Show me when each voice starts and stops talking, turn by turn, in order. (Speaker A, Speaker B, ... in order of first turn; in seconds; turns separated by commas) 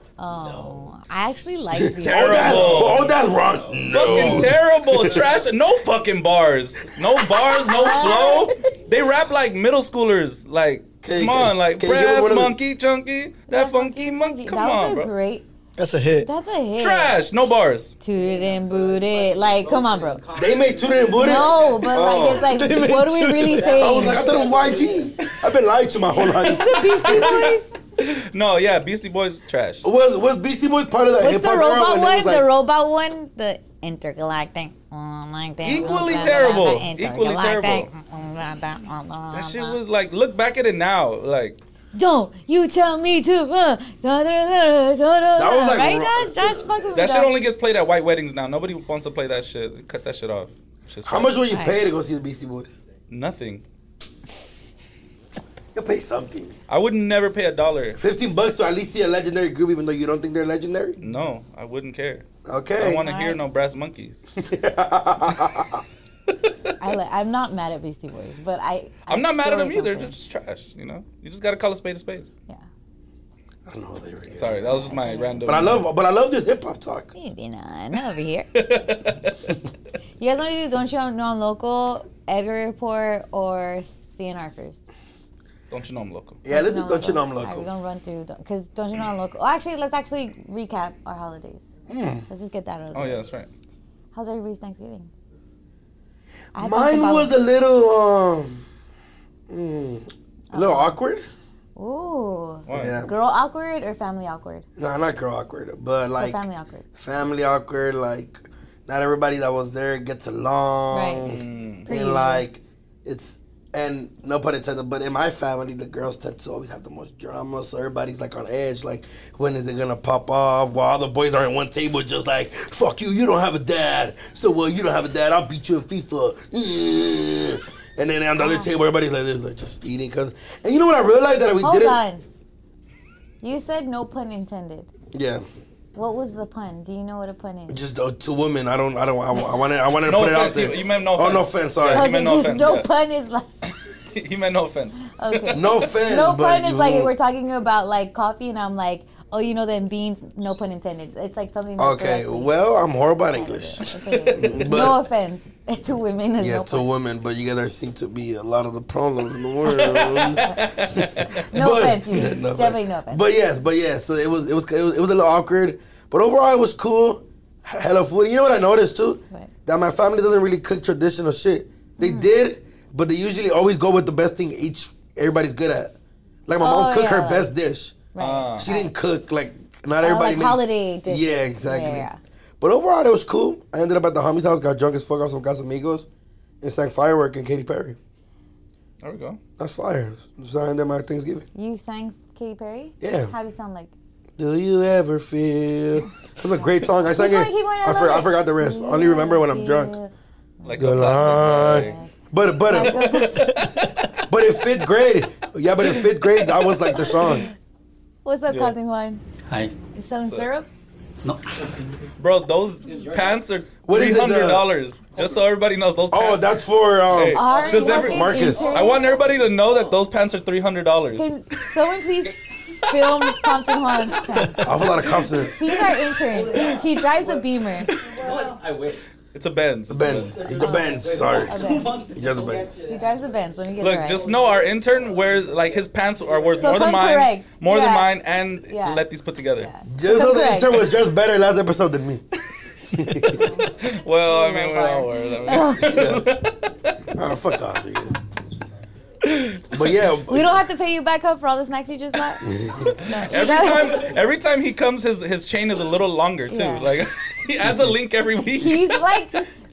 Speaker A: 0.2-3.1, Speaker B: 1.7-5.2, Speaker C: 2.1-3.1, Speaker D: 3.8-4.4, Speaker C: 3.9-15.1, Speaker B: 7.2-7.5, Speaker A: 7.7-8.5, Speaker B: 11.0-12.6, Speaker A: 13.5-15.4, Speaker E: 15.8-16.3, Speaker A: 16.2-17.1, Speaker C: 16.8-17.9, Speaker A: 18.0-20.2, Speaker E: 18.2-25.1, Speaker B: 20.4-22.6, Speaker A: 21.1-24.2, Speaker B: 23.6-27.3, Speaker A: 26.2-27.8, Speaker C: 26.3-29.8, Speaker B: 29.8-32.5, Speaker A: 31.2-39.8, Speaker C: 35.6-37.9, Speaker C: 39.3-41.6, Speaker A: 41.9-47.3, Speaker B: 45.4-47.0, Speaker C: 47.0-51.3, Speaker B: 51.0-52.8, Speaker A: 51.5-51.8, Speaker C: 53.1-53.6, Speaker B: 55.7-56.5, Speaker C: 56.7-58.0, Speaker B: 58.0-61.0, Speaker C: 61.0-62.2, Speaker B: 62.4-63.0, Speaker C: 62.8-64.2, Speaker A: 63.0-63.4, Speaker B: 64.3-65.8, Speaker C: 66.4-66.7, Speaker A: 66.8-70.1, Speaker C: 69.1-72.3, Speaker B: 73.7-74.8, Speaker C: 74.3-75.8, Speaker A: 74.7-75.5, Speaker B: 75.4-77.1, Speaker A: 77.1-78.5, Speaker C: 78.5-79.6, Speaker A: 80.2-84.8, Speaker C: 85.7-86.4, Speaker B: 86.4-87.7, Speaker A: 86.5-91.7, Speaker B: 91.9-92.2, Speaker A: 92.3-93.2, Speaker C: 92.9-93.5, Speaker A: 94.1-95.1, Speaker A: 96.5-97.3, Speaker B: 96.5-98.6, Speaker B: 99.5-101.2, Speaker A: 100.5-101.0, Speaker A: 101.8-104.6, Speaker C: 102.7-103.0, Speaker B: 102.7-103.1, Speaker B: 104.8-106.4, Speaker A: 106.2-106.8, Speaker B: 107.0-132.0, Speaker A: 110.9-111.2, Speaker C: 111.2-111.8, Speaker A: 111.9-112.5, Speaker A: 128.4-128.7, Speaker A: 131.6-132.2, Speaker A: 133.4-134.9, Speaker B: 135.1-135.4, Speaker A: 135.9-137.8, Speaker B: 137.7-142.1, Speaker C: 140.0-142.9, Speaker A: 141.9-143.8, Speaker C: 144.1-145.8, Speaker A: 145.1-152.5, Speaker B: 145.5-147.1, Speaker B: 151.8-155.0, Speaker A: 153.3-156.9, Speaker B: 156.4-175.9, Speaker A: 160.4-160.9, Speaker A: 161.5-163.3, Speaker A: 172.0-172.3, Speaker B: 176.5-178.0, Speaker A: 176.6-177.5, Speaker A: 178.1-178.9, Speaker C: 178.2-178.7, Speaker B: 178.6-182.1, Speaker A: 180.0-182.2, Speaker B: 182.6-186.1, Speaker B: 186.6-188.0, Speaker C: 189.0-189.4, Speaker B: 189.6-191.5, Speaker A: 191.5-193.9, Speaker B: 193.0-193.3, Speaker B: 194.4-199.9, Speaker A: 197.1-202.1, Speaker C: 200.6-202.0, Speaker B: 200.8-203.3, Speaker A: 202.7-203.7, Speaker C: 202.7-204.2, Speaker B: 204.2-207.5, Speaker C: 205.8-207.2, Speaker A: 208.2-209.2, Speaker C: 208.5-208.7, Speaker D: 209.5-209.7, Speaker A: 209.9-210.7, Speaker D: 211.2-211.5, Speaker C: 212.2-216.5, Speaker D: 212.9-213.4, Speaker B: 213.8-214.7, Speaker B: 216.1-218.7, Speaker C: 217.1-221.3, Speaker A: 217.3-219.1, Speaker D: 219.0-219.8, Speaker A: 221.1-224.6, Speaker C: 223.0-223.3, Speaker B: 224.6-225.6, Speaker A: 225.5-227.9, Speaker D: 226.5-226.8, Speaker E: 228.0-228.6, Speaker D: 228.2-229.0, Speaker C: 229.3-230.3, Speaker B: 229.9-231.6, Speaker E: 230.4-231.7, Speaker D: 230.4-232.6, Speaker A: 230.6-231.9, Speaker B: 232.1-232.8, Speaker E: 232.2-233.4, Speaker A: 232.8-234.3, Speaker C: 233.8-239.7, Speaker E: 234.2-234.7, Speaker A: 236.6-238.1, Speaker A: 238.7-239.0, Speaker A: 239.6-240.8, Speaker B: 239.9-242.2, Speaker B: 242.9-243.5, Speaker C: 243.3-247.0, Speaker A: 243.4-243.7, Speaker A: 244.2-245.9, Speaker B: 245.8-246.4, Speaker B: 247.1-248.2, Speaker C: 249.2-249.6, Speaker B: 249.7-250.6, Speaker A: 250.3-254.1, Speaker B: 252.4-253.0, Speaker C: 253.2-259.0, Speaker A: 256.5-256.9, Speaker A: 258.5-259.4